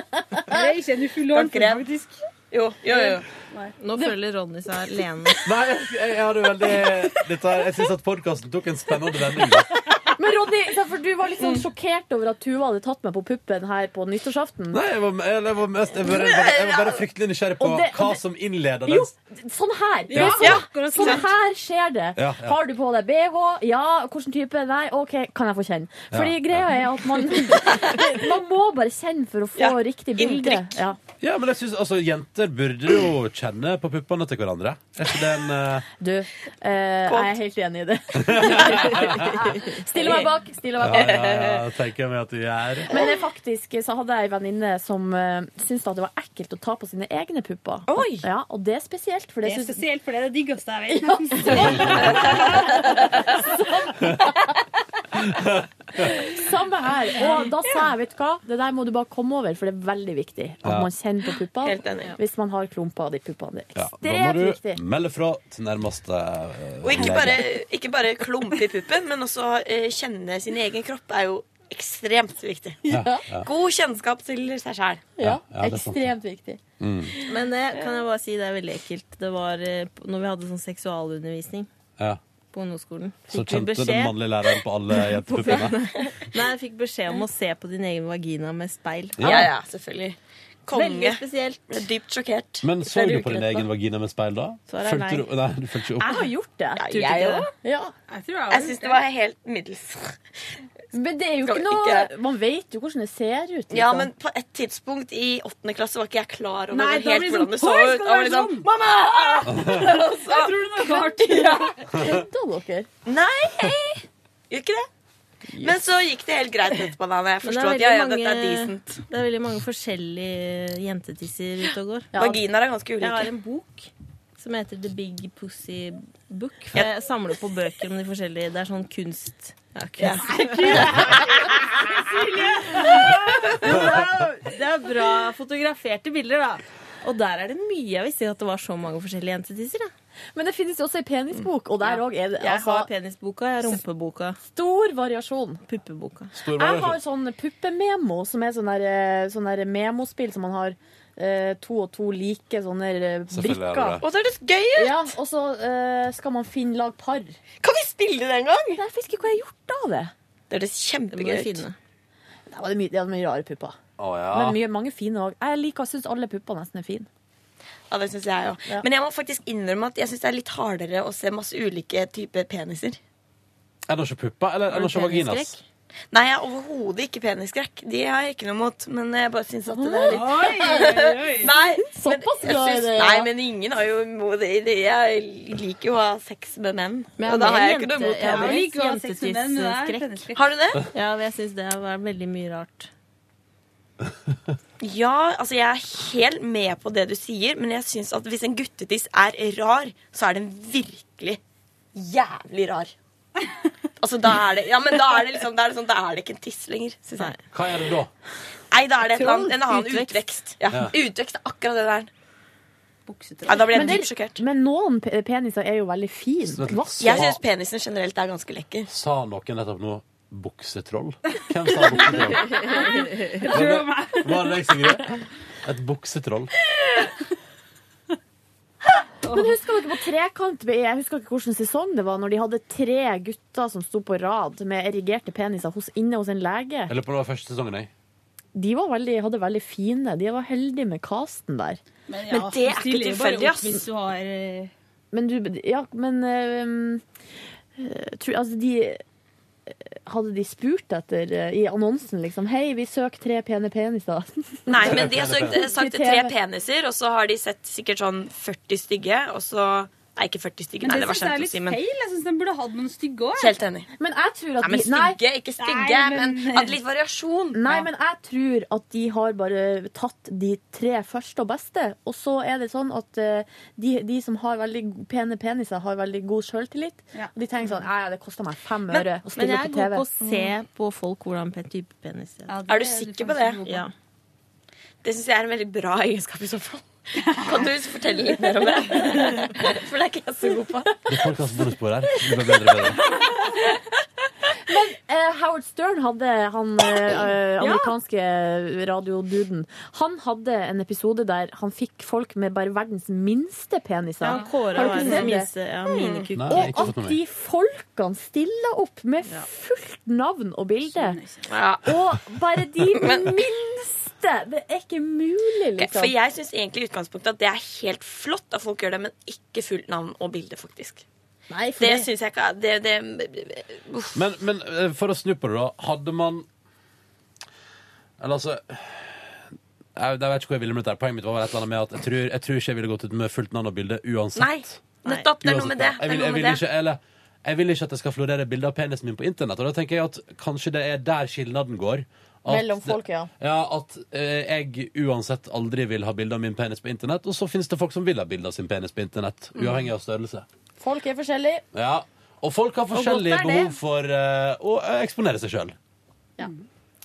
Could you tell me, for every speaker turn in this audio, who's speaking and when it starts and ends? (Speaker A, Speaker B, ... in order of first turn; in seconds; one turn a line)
Speaker A: 0.2-0.4
Speaker B: 0.5-2.1
Speaker C: 1.3-3.2
Speaker D: 3.8-5.5
Speaker E: 5.4-9.7
Speaker A: 10.1-14.8
Speaker C: 11.4-11.7
Speaker E: 14.7-19.1
Speaker C: 16.0-17.1
Speaker A: 17.6-18.2
Speaker A: 18.9-31.0
Speaker B: 20.1-21.2
Speaker E: 20.1-20.6
Speaker C: 20.2-21.3
Speaker E: 22.1-22.6
Speaker E: 26.1-26.8
Speaker C: 29.6-30.8
Speaker E: 31.2-35.9
Speaker A: 36.0-41.4
Speaker C: 37.1-37.4
Speaker E: 38.2-39.4
Speaker C: 38.7-40.3
Speaker E: 40.8-42.9
Speaker C: 40.9-41.6
Speaker C: 42.9-43.1
Speaker A: 42.9-49.8
Speaker C: 47.9-48.3
Speaker B: 49.4-51.5
Speaker A: 51.1-52.1
Speaker C: 51.5-53.3
Speaker E: 51.8-52.1
Speaker A: 53.0-54.3
Speaker E: 55.1-56.0
Speaker A: 56.0-64.8
Speaker E: 60.6-60.9
Speaker C: 61.6-62.1
Speaker E: 63.8-67.5
Speaker C: 66.8-75.1
Speaker A: 72.9-73.2
Speaker E: 72.9-73.5
Speaker A: 75.2-76.6
Speaker E: 75.2-76.1
Speaker E: 76.8-77.2
Speaker D: 77.2-81.7
Speaker C: 77.3-78.0
Speaker D: 82.5-89.4
Speaker E: 83.3-85.8
Speaker C: 85.5-86.1
Speaker E: 89.2-89.5
Speaker C: 89.2-93.7
Speaker D: 90.7-91.8
Speaker E: 92.6-96.3
Speaker D: 94.7-95.3
Speaker A: 96.0-97.9
Speaker C: 96.8-97.5
Speaker B: 98.1-99.0
Speaker C: 98.5-100.2
Speaker A: 100.9-104.1
Speaker C: 101.4-102.1
Speaker C: 103.7-111.8
Speaker B: 106.7-111.7
Speaker E: 109.5-109.8
Speaker A: 111.9-112.9
Speaker C: 113.1-114.9
Speaker A: 115.5-115.8
Speaker C: 115.6-119.0
Speaker D: 117.4-122.1
Speaker C: 122.1-123.3
Speaker D: 123.0-131.1
Speaker C: 130.0-131.7
Speaker B: 130.2-131.3
Speaker D: 132.2-139.9
Speaker A: 140.3-142.9
Speaker D: 141.8-144.4
Speaker A: 144.4-145.6
Speaker D: 145.7-146.3
Speaker E: 146.3-147.0
Speaker A: 146.6-154.0
Speaker E: 153.3-154.0
Speaker C: 154.0-155.1
Speaker A: 154.7-157.4
Speaker C: 157.6-158.8
Speaker A: 158.7-160.1
Speaker C: 160.5-161.6
Speaker D: 161.1-161.8
Speaker A: 162.5-163.8
Speaker E: 164.0-164.6
Speaker A: 164.3-167.1
Speaker C: 167.9-173.0
Speaker E: 173.9-175.6
Speaker D: 174.7-175.6
Speaker C: 176.1-188.6
Speaker A: 179.7-180.9
Speaker B: 180.1-181.5
Speaker A: 181.8-183.3
Speaker D: 187.2-190.3
Speaker B: 188.2-190.4
Speaker C: 190.3-190.8
Speaker D: 190.8-192.9
Speaker C: 194.8-201.4
Speaker C: 201.9-202.9
Speaker C: 204.0-207.3
Speaker E: 207.5-208.1
Speaker C: 208.7-212.1
Speaker D: 209.6-210.1
Speaker B: 213.1-214.0
Speaker C: 213.4-214.4
Speaker A: 213.7-217.3
Speaker E: 216.5-217.4
Speaker C: 217.0-218.9
Speaker E: 218.9-222.6
Speaker B: 222.6-224.7
Speaker E: 223.5-226.5
Speaker B: 229.2-229.6
Speaker A: 229.3-236.9
Speaker E: 236.9-237.9
Speaker A: 238.6-241.8
Speaker B: 242.1-244.7
Speaker C: 242.3-243.8
Speaker A: 245.1-247.0
Speaker A: 247.8-249.0
Speaker A: 249.7-256.3
Speaker C: 254.7-261.8
Speaker E: 254.8-255.6
Speaker B: 260.8-263.6
Speaker C: 263.4-263.9
Speaker A: 264.0-265.2
Speaker C: 264.6-267.6
Speaker B: 265.6-266.8
Speaker A: 267.5-280.1
Speaker D: 279.4-282.6
Speaker B: 282.5-283.9
Speaker C: 282.6-283.6
Speaker D: 283.6-283.9
Speaker C: 285.0-291.0
Speaker B: 287.2-287.7
Speaker E: 291.1-293.0
Speaker A: 294.6-305.5
Speaker D: 297.6-297.9
Speaker D: 304.2-306.9
Speaker C: 304.9-305.3
Speaker C: 305.9-306.3
Speaker E: 306.3-307.2
Speaker A: 306.5-311.2
Speaker B: 310.9-311.4
Speaker C: 311.4-311.9
Speaker A: 311.8-316.1
Speaker C: 312.9-313.4
Speaker C: 315.8-321.0
Speaker A: 321.5-322.1
Speaker C: 321.8-324.2
Speaker E: 324.1-326.4
Speaker E: 328.2-329.4
Speaker E: 329.9-334.8
Speaker C: 334.4-336.6
Speaker E: 335.4-350.4
Speaker A: 342.5-343.3
Speaker A: 350.8-351.6
Speaker E: 351.7-355.8
Speaker D: 353.1-353.4